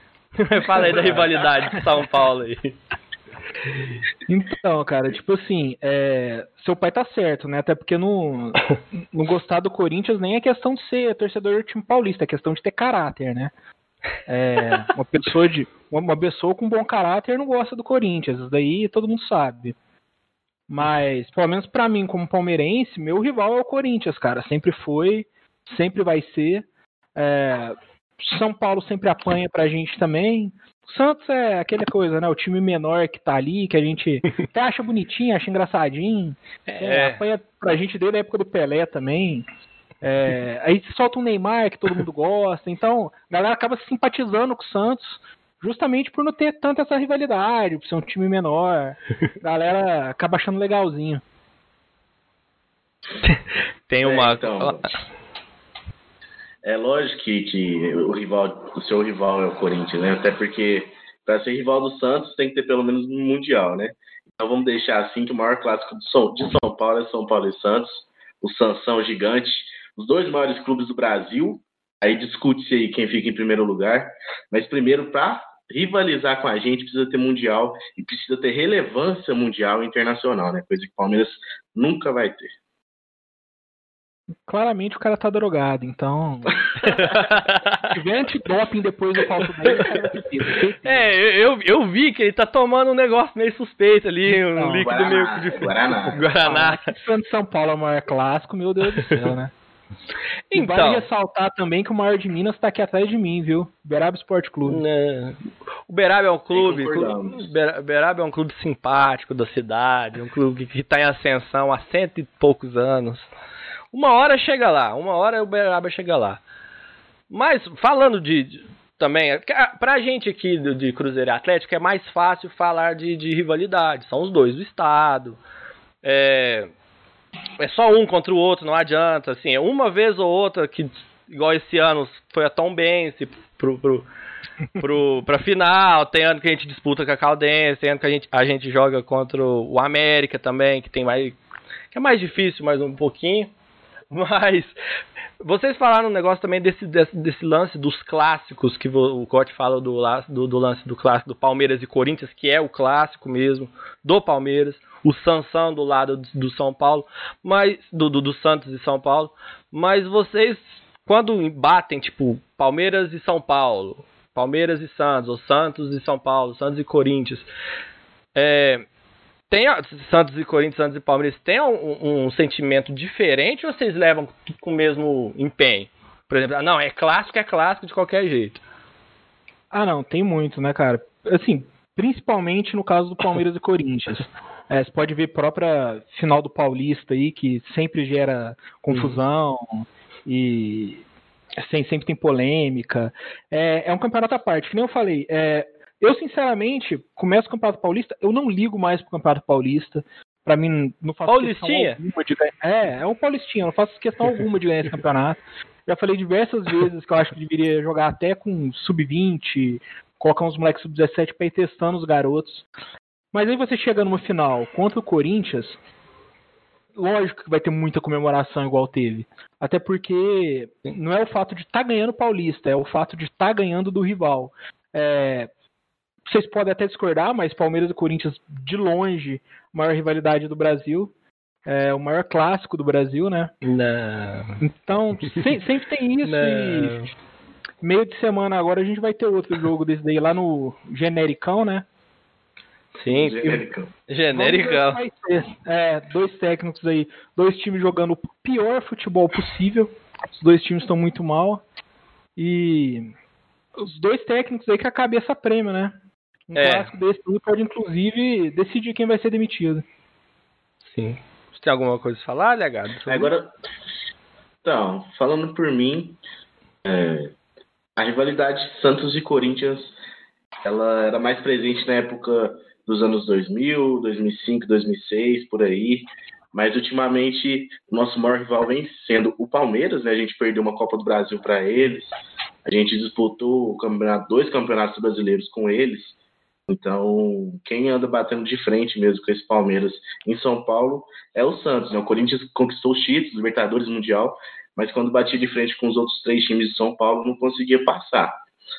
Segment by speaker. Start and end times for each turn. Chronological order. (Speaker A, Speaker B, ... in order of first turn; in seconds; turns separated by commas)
Speaker A: 0.4-2.8, Speaker B: 0.9-1.2, Speaker B: 4.3-13.5, Speaker B: 14.3-19.8, Speaker B: 20.7-39.4, Speaker A: 36.7-37.2, Speaker B: 40.0-51.2, Speaker A: 53.2-54.9, Speaker C: 54.0-55.0, Speaker C: 56.6-82.5, Speaker B: 84.5-86.6, Speaker A: 86.9-88.0, Speaker B: 87.9-91.1, Speaker A: 90.8-96.8, Speaker B: 94.3-94.8, Speaker C: 94.8-96.5, Speaker B: 96.1-99.5, Speaker A: 100.5-101.1, Speaker B: 100.5-104.8, Speaker A: 104.7-105.4, Speaker A: 105.9-113.3, Speaker C: 106.5-107.4, Speaker A: 113.9-116.4, Speaker A: 117.3-125.4, Speaker A: 126.0-126.7, Speaker A: 127.6-134.1, Speaker A: 134.8-141.4, Speaker A: 141.9-143.5, Speaker A: 144.1-144.8, Speaker A: 145.4-167.5, Speaker A: 168.3-168.8, Speaker A: 169.5-178.6, Speaker B: 179.7-191.0, Speaker A: 188.9-189.2, Speaker B: 191.6-212.6, Speaker A: 201.3-202.0, Speaker B: 213.3-215.8, Speaker B: 216.9-225.5, Speaker B: 226.2-231.1, Speaker B: 231.7-233.5, Speaker A: 233.6-234.6, Speaker B: 234.6-237.0, Speaker A: 236.2-237.1, Speaker B: 237.8-241.8, Speaker A: 243.0-245.0, Speaker C: 243.1-243.9, Speaker B: 244.3-251.6, Speaker B: 252.3-253.1, Speaker B: 253.8-255.9, Speaker B: 256.5-259.8, Speaker A: 256.5-256.9, Speaker A: 260.9-263.3, Speaker C: 263.1-263.5, Speaker C: 264.6-266.2, Speaker C: 266.8-267.3, Speaker C: 267.9-269.9, Speaker C: 270.6-282.1, Speaker C: 282.6-298.4